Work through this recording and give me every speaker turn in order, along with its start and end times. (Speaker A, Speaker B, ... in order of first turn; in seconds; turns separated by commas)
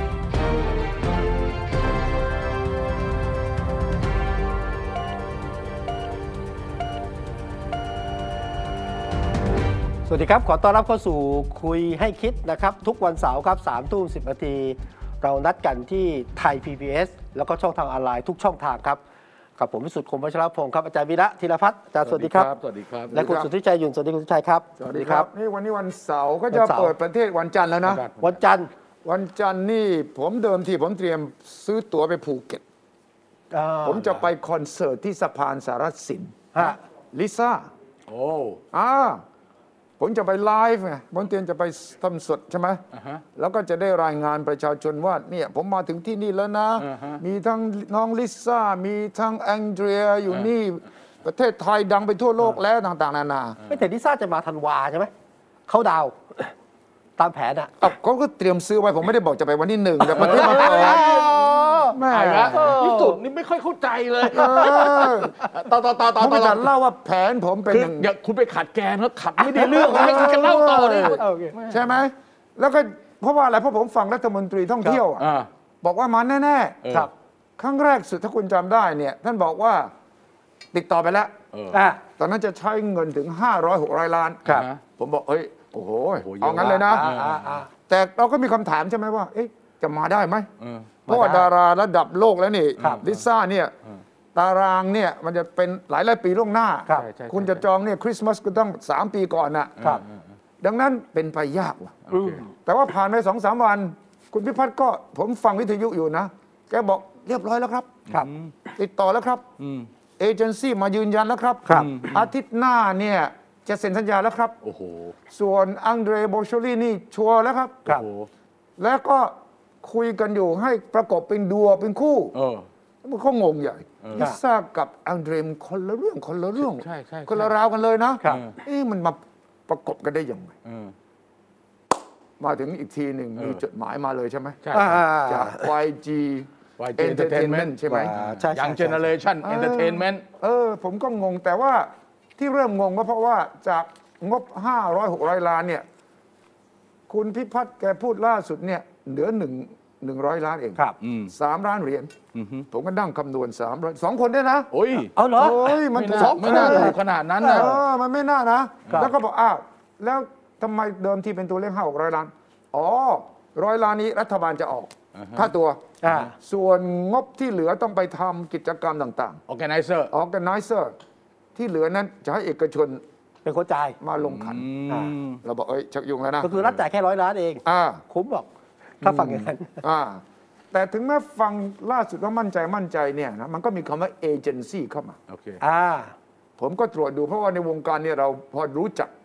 Speaker A: 10.1-19.0, Speaker A: 19.6-22.5, Speaker B: 22.1-23.1, Speaker C: 23.1-23.5, Speaker A: 23.1-25.3, Speaker C: 24.8-28.1, Speaker A: 26.5-26.9, Speaker B: 27.8-28.4, Speaker A: 28.2-28.7, Speaker C: 29.0-32.6, Speaker A: 33.5-34.2, Speaker C: 33.8-37.7, Speaker B: 38.1-38.6, Speaker C: 38.7-39.2, Speaker C: 40.0-42.8, Speaker B: 42.9-43.2, Speaker C: 43.4-53.6, Speaker B: 46.8-47.2, Speaker A: 53.7-55.1, Speaker A: 55.7-56.5, Speaker A: 57.2-57.7, Speaker C: 57.8-61.2, Speaker B: 60.1-66.7, Speaker A: 60.1-62.0, Speaker C: 61.9-62.8, Speaker A: 62.5-63.2, Speaker C: 64.2-65.4, Speaker A: 64.3-64.8, Speaker C: 66.2-68.1, Speaker B: 67.7-72.0, Speaker A: 69.4-71.5, Speaker C: 69.8-75.3, Speaker B: 75.2-75.5, Speaker C: 75.8-76.8, Speaker B: 76.8-77.1, Speaker C: 77.6-79.9, Speaker C: 80.7-81.3, Speaker B: 81.5-81.8, Speaker A: 81.7-82.0, Speaker C: 82.2-84.5, Speaker B: 84.5-84.8, Speaker C: 85.0-87.1, Speaker B: 86.2-87.6, Speaker A: 86.6-87.7, Speaker C: 87.9-90.5, Speaker B: 90.6-90.9, Speaker A: 91.1-91.5, Speaker C: 91.1-93.7, Speaker B: 92.8-93.2, Speaker C: 94.3-100.0, Speaker B: 96.9-97.6, Speaker B: 99.8-100.1, Speaker C: 100.6-108.0, Speaker B: 102.1-102.4, Speaker A: 102.1-102.5, Speaker B: 108.1-108.5, Speaker C: 108.8-109.4, Speaker B: 109.6-109.9, Speaker C: 110.2-114.5, Speaker B: 111.7-112.3, Speaker B: 114.6-115.1, Speaker C: 115.3-117.8, Speaker B: 117.9-118.3, Speaker C: 118.8-122.3, Speaker B: 122.3-122.7, Speaker C: 123.0-130.5, Speaker B: 124.0-124.3, Speaker B: 126.7-127.5, Speaker B: 128.3-128.5, Speaker B: 130.6-130.9, Speaker C: 132.4-138.1, Speaker B: 134.6-135.0, Speaker A: 134.7-135.7, Speaker B: 136.8-140.2, Speaker A: 137.8-139.1, Speaker C: 139.4-145.8, Speaker C: 147.1-152.1, Speaker B: 151.0-151.3, Speaker B: 152.3-152.7, Speaker C: 152.7-154.7, Speaker B: 154.7-155.1, Speaker A: 155.2-157.0, Speaker C: 155.3-165.8, Speaker B: 155.9-157.7, Speaker B: 165.2-165.5, Speaker A: 166.0-166.3, Speaker C: 166.4-169.4, Speaker B: 169.5-170.1, Speaker C: 170.1-170.9, Speaker C: 171.5-173.0, Speaker A: 173.4-174.0, Speaker C: 174.0-174.7, Speaker B: 174.2-175.4, Speaker C: 175.4-176.6, Speaker A: 176.4-178.5, Speaker C: 177.6-178.0, Speaker A: 179.0-179.8, Speaker C: 179.0-185.2, Speaker B: 185.3-185.6, Speaker A: 185.6-186.1, Speaker C: 186.6-189.1